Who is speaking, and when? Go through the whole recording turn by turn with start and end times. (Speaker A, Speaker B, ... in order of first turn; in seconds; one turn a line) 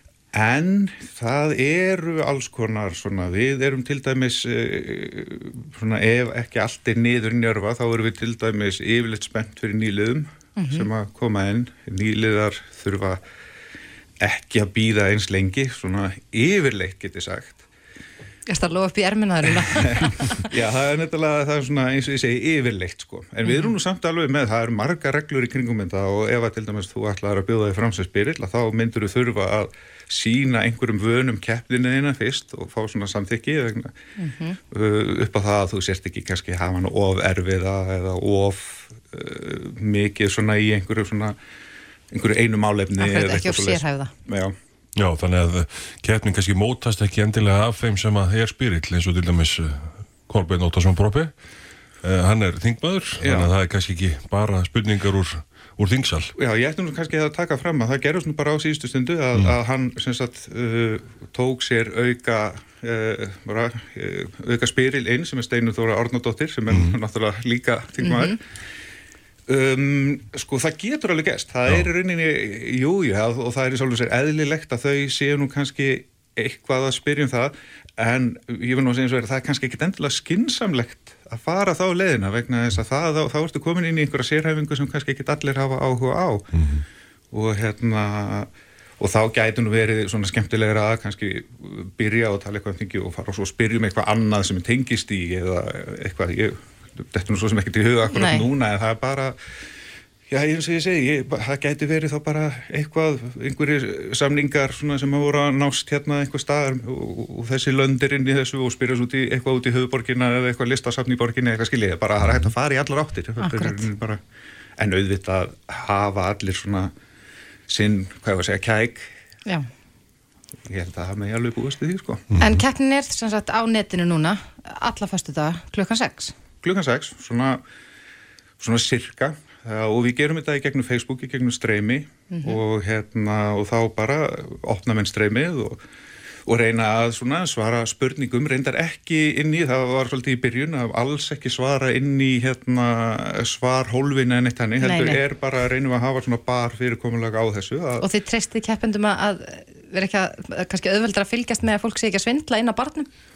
Speaker A: 0.3-13.2
Speaker B: 10.6-10.9
Speaker A: 14.2-17.6
Speaker B: 18.5-20.5
Speaker A: 19.8-34.0
Speaker B: 23.5-23.7
Speaker B: 34.2-34.6
Speaker A: 34.7-41.4
Speaker A: 42.1-44.5
Speaker B: 43.0-44.1
Speaker C: 45.0-51.4
Speaker C: 52.0-56.3
Speaker A: 53.2-53.5
Speaker A: 56.4-68.4
Speaker B: 68.0-68.4
Speaker A: 69.5-86.5
Speaker C: 86.5-86.8
Speaker A: 87.3-99.4
Speaker B: 98.1-98.5
Speaker A: 100.3-114.2
Speaker B: 113.4-113.9
Speaker A: 114.8-116.9
Speaker A: 117.7-119.1
Speaker A: 120.7-122.3
Speaker C: 122.3-122.6
Speaker B: 122.4-126.3
Speaker A: 126.6-127.6
Speaker A: 128.6-135.8
Speaker B: 132.3-132.6
Speaker A: 136.5-148.1
Speaker B: 144.8-145.2
Speaker B: 148.0-153.1